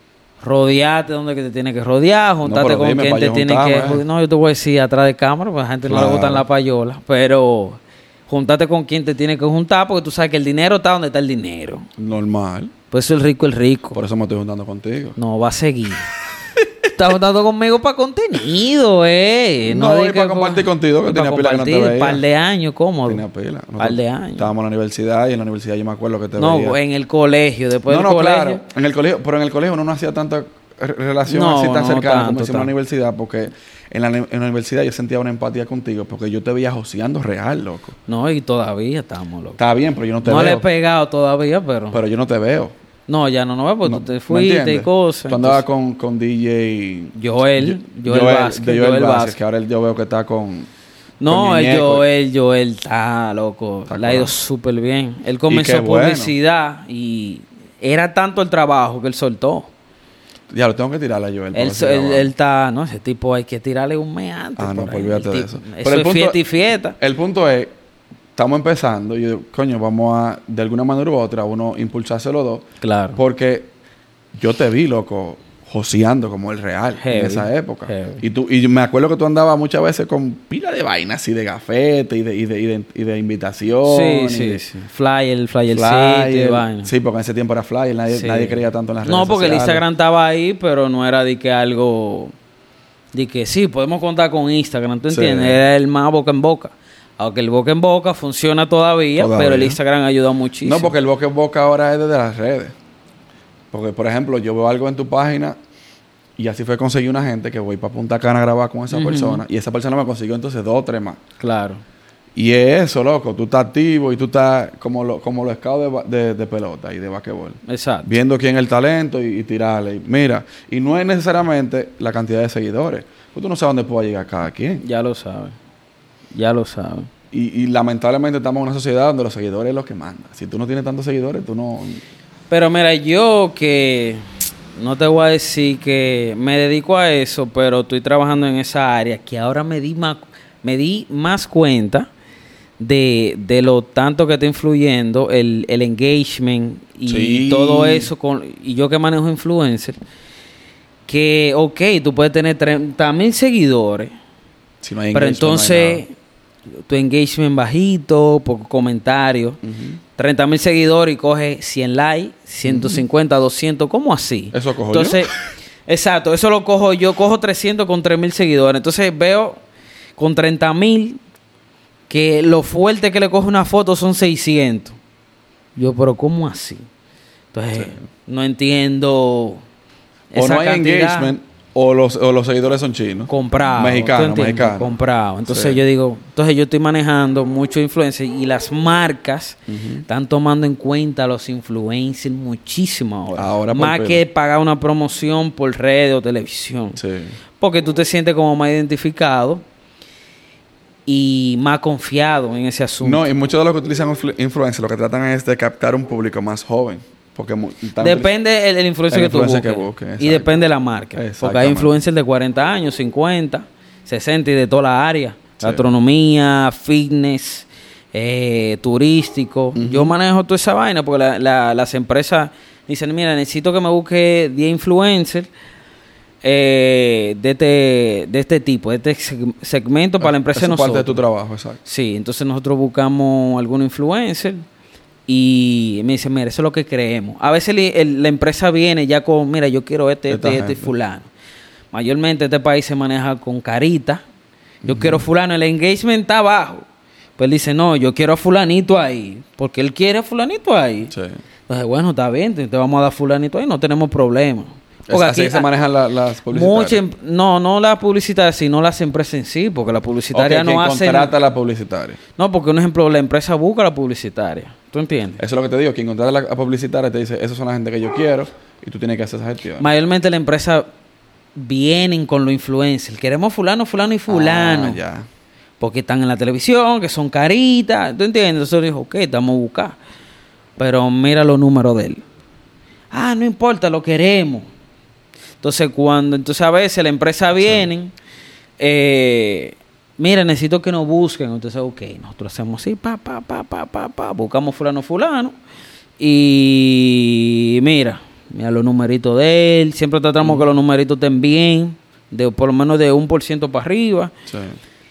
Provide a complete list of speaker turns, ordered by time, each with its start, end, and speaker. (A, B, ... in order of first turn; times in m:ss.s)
0:00.4-0:11.9 A
0:02.4-0:04.0 B
0:05.8-0:06.4 B
0:12.0-0:12.7 B
0:12.9-0:14.0 A
0:13.9-0:15.2 B
0:15.2-0:16.1 A
0:16.9-0:23.2 A
0:19.7-0:22.2 B
0:23.1-0:26.8 B
0:23.8-0:24.5 A
0:26.4-0:28.6 A
0:27.9-0:38.0 B
0:31.3-0:32.7 A
0:38.1-0:39.6 A
0:39.6-0:40.6 B
0:40.2-0:42.0 A
0:41.9-0:42.7 B
0:43.1-0:45.6 A
0:43.8-0:50.7 B
0:47.1-0:49.4 A
0:51.2-0:59.7 A
0:51.3-0:52.0 B
0:53.9-0:54.3 B
0:55.5-0:56.3 B
1:00.5-1:02.3 B
1:01.5-1:07.0 A
1:04.6-1:06.4 B
1:07.0-1:07.7 B
1:08.3-1:12.6 B
1:12.8-1:13.2 A
1:13.2-1:13.7 B
1:14.4-1:24.6 B
1:17.0-1:18.2 A
1:23.8-1:26.9 A
1:25.7-1:29.8 B
1:28.1-1:32.3 A
1:33.1-1:40.9 A
1:35.1-1:35.6 B
1:39.2-1:39.8 B
1:40.6-1:42.8 B
1:43.7-1:45.6 B
1:46.4-1:51.2 B
1:48.9-1:49.4 A
1:51.4-1:51.8 A
1:52.3-2:04.8 B
1:57.6-1:58.1 A
2:04.8-2:05.6 A
2:06.3-2:07.1 A
2:07.3-2:12.0 B
2:12.5-2:14.2 A
2:14.7-2:22.1 A
2:22.8-2:30.0 A
2:27.0-2:28.1 B
2:31.1-2:34.1 A
2:34.8-2:36.0 B
2:35.1-2:36.1 A
2:36.9-2:39.6 A
2:39.6-2:40.0 B
2:40.2-2:45.3 A
2:42.7-2:43.0 B
2:44.5-2:45.3 B
2:45.9-2:49.6 A
2:50.2-2:51.2 A
2:52.1-2:55.0 A
2:55.8-2:56.8 A
2:57.5-2:59.6 A
3:00.3-3:01.3 A
3:00.3-3:04.9 B
3:03.3-3:17.0 A
3:05.4-3:05.8 B
3:09.7-3:10.0 B
3:13.3-3:14.2 B
3:17.0-3:17.3 B
3:17.6-3:19.6 A
3:21.0-3:23.2 A
3:23.0-3:28.3 B
3:28.0-3:45.5 A
3:29.1-3:30.5 B
3:31.1-3:31.9 B
3:39.8-3:40.1 B
3:46.4-3:51.2 A
3:50.2-3:51.8 B
3:51.8-3:54.6 A
3:55.3-4:01.3 A
4:00.3-4:00.9 B
4:01.9-4:04.2 A
4:04.8-4:05.2 B
4:04.8-4:06.8 A
4:07.4-4:11.1 A
4:11.1-4:11.4 B
4:11.7-4:15.7 A
4:15.1-4:17.0 B
4:16.5-4:21.3 A
4:20.3-4:22.2 B
4:22.4-4:25.4 A
4:25.4-4:29.9 B
4:29.8-4:30.9 A
4:31.6-4:35.0 A
4:34.3-4:35.3 B
4:35.8-4:40.0 A
4:40.8-4:42.2 A
4:43.1-4:44.7 A
4:45.6-4:48.1 A
4:47.6-4:47.9 B
4:48.8-4:55.5 A
4:56.2-5:04.3 A
5:04.5-5:04.8 B